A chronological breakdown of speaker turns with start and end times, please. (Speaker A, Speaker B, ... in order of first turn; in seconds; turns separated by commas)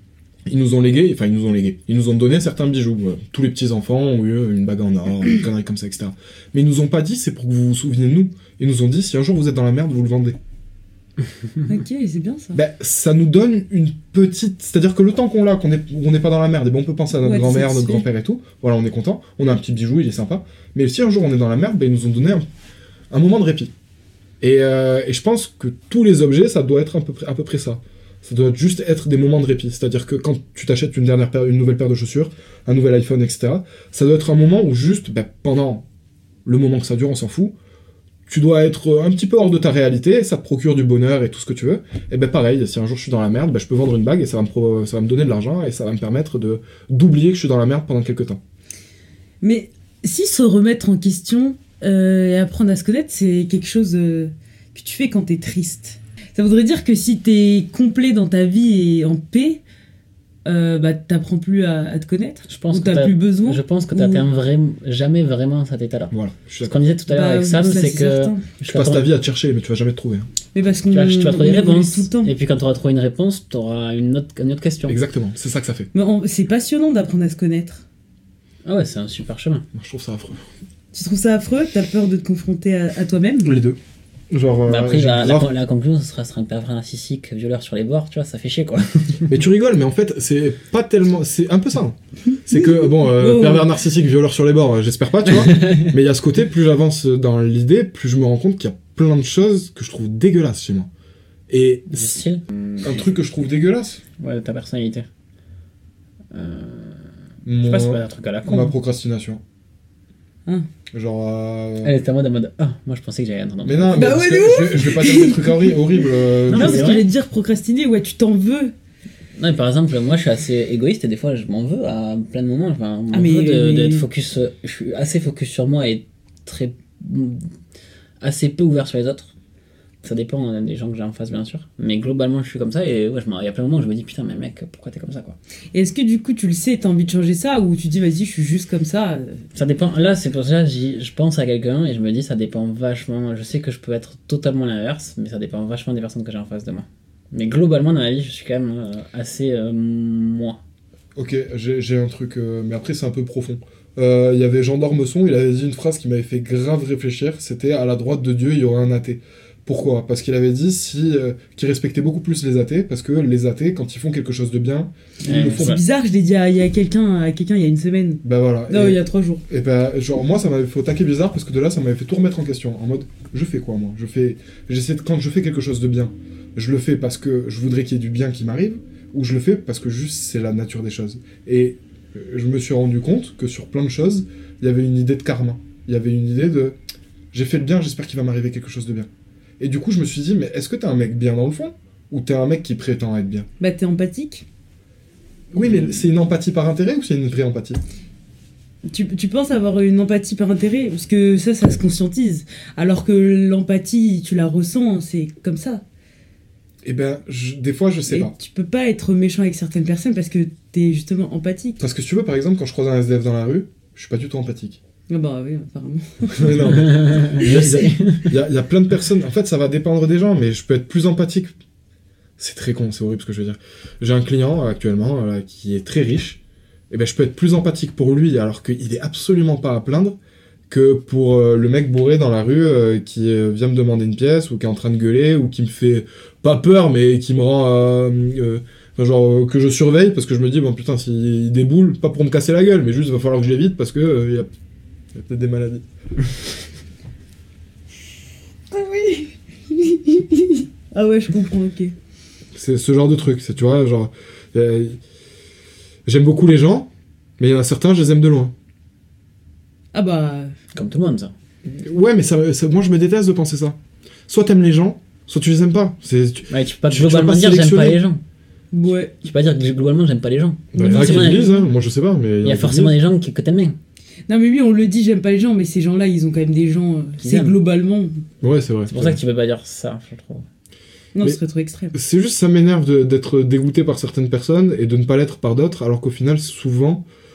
Speaker A: 0.5-10.4, Speaker B: 11.7-12.6, Speaker A: 12.5-22.5, Speaker B: 17.2-18.1, Speaker A: 23.1-23.7, Speaker A: 24.4-35.9, Speaker A: 36.5-37.5, Speaker A: 38.3-48.4, Speaker B: 49.4-59.6, Speaker B: 60.5-64.2, Speaker C: 62.5-69.1, Speaker A: 66.1-66.8, Speaker B: 67.1-68.5, Speaker A: 68.7-70.3, Speaker B: 70.5-72.3, Speaker C: 70.9-75.0, Speaker A: 74.9-75.9, Speaker B: 75.9-77.8, Speaker C: 78.7-79.7, Speaker A: 79.7-80.4, Speaker B: 80.9-83.6, Speaker A: 83.4-83.8, Speaker A: 84.3-85.5, Speaker C: 84.7-89.3, Speaker A: 89.3-100.9, Speaker B: 92.5-93.7, Speaker C: 95.3-96.0, Speaker A: 101.5-102.2, Speaker C: 101.9-103.0, Speaker A: 102.8-104.0, Speaker C: 104.2-105.1, Speaker C: 106.3-107.1, Speaker A: 107.5-109.4, Speaker C: 107.6-108.8, Speaker A: 110.9-112.0, Speaker C: 111.8-114.2, Speaker A: 113.6-116.9, Speaker B: 113.9-118.7, Speaker C: 116.5-117.1, Speaker C: 119.4-127.5, Speaker B: 123.1-124.1, Speaker C: 128.2-129.3, Speaker C: 130.0-135.4, Speaker B: 135.7-139.4, Speaker C: 139.6-150.6, Speaker A: 151.2-165.8, Speaker C: 165.2-165.8, Speaker B: 165.3-169.4, Speaker A: 168.2-186.8, Speaker A: 187.3-189.1, Speaker A: 189.6-193.5, Speaker B: 193.6-194.4, Speaker A: 195.5-197.8, Speaker B: 198.9-205.8, Speaker A: 206.8-208.3, Speaker B: 208.1-211.8, Speaker A: 211.8-214.8, Speaker B: 215.1-217.8, Speaker A: 216.3-221.5, Speaker C: 216.7-218.3, Speaker A: 222.4-230.2, Speaker A: 230.7-244.5, Speaker A: 245.1-245.9, Speaker B: 248.7-251.9, Speaker A: 252.5-255.0, Speaker A: 256.1-258.5, Speaker B: 259.9-260.6, Speaker C: 260.7-261.3, Speaker A: 261.7-263.8, Speaker A: 264.3-268.0, Speaker C: 266.5-268.2, Speaker B: 268.7-269.1, Speaker C: 269.2-271.5, Speaker B: 270.7-271.6, Speaker A: 270.7-273.0, Speaker C: 272.4-273.8, Speaker B: 274.3-278.2, Speaker C: 277.2-277.6, Speaker A: 278.4-279.2, Speaker C: 278.9-280.5, Speaker B: 281.1-281.9, Speaker A: 281.9-287.1